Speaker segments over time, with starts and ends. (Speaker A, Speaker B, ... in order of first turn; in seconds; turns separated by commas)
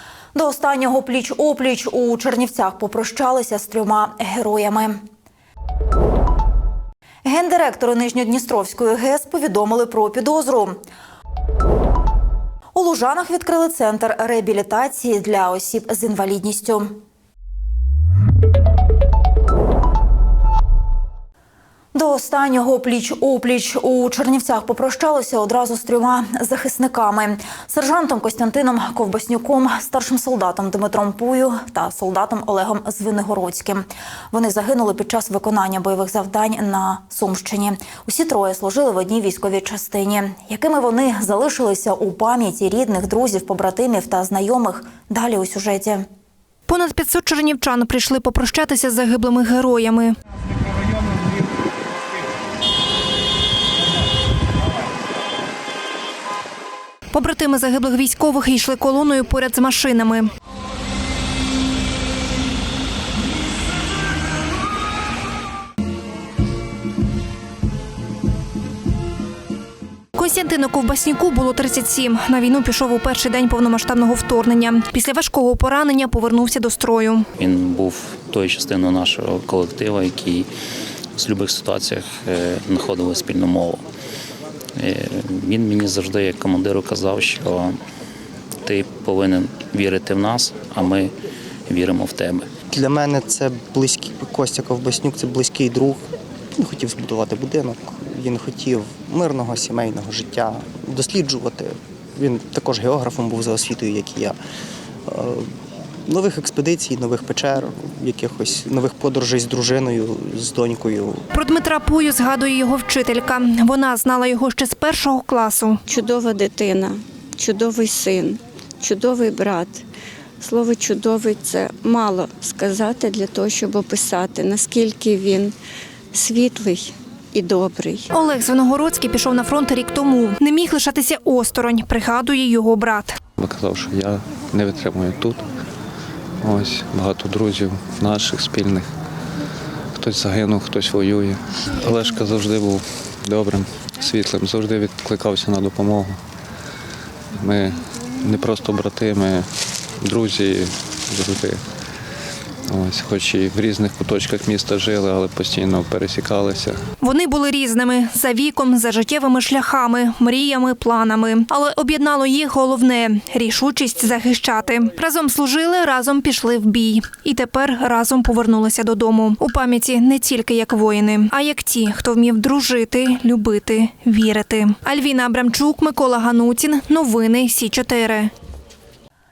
Speaker A: 0.3-5.0, Speaker A: 7.2-10.8, Speaker A: 12.8-17.0, Speaker A: 21.9-46.1, Speaker B: 46.7-50.2, Speaker B: 57.1-60.3, Speaker B: 70.2-77.3, Speaker C: 77.4-80.5, Speaker C: 81.2-83.8, Speaker C: 84.8-87.8, Speaker C: 88.7-91.1, Speaker C: 91.7-92.5, Speaker D: 92.7-104.4, Speaker D: 105.1-105.5, Speaker D: 106.1-111.2, Speaker B: 111.3-115.8, Speaker E: 115.9-119.8, Speaker E: 120.4-125.5, Speaker E: 126.1-128.0, Speaker B: 128.1-133.2, Speaker F: 133.4-135.4, Speaker F: 136.4-138.9, Speaker F: 139.9-146.2, Speaker F: 147.4-149.5, Speaker F: 150.0-151.6, Speaker F: 152.7-156.8, Speaker B: 157.0-178.3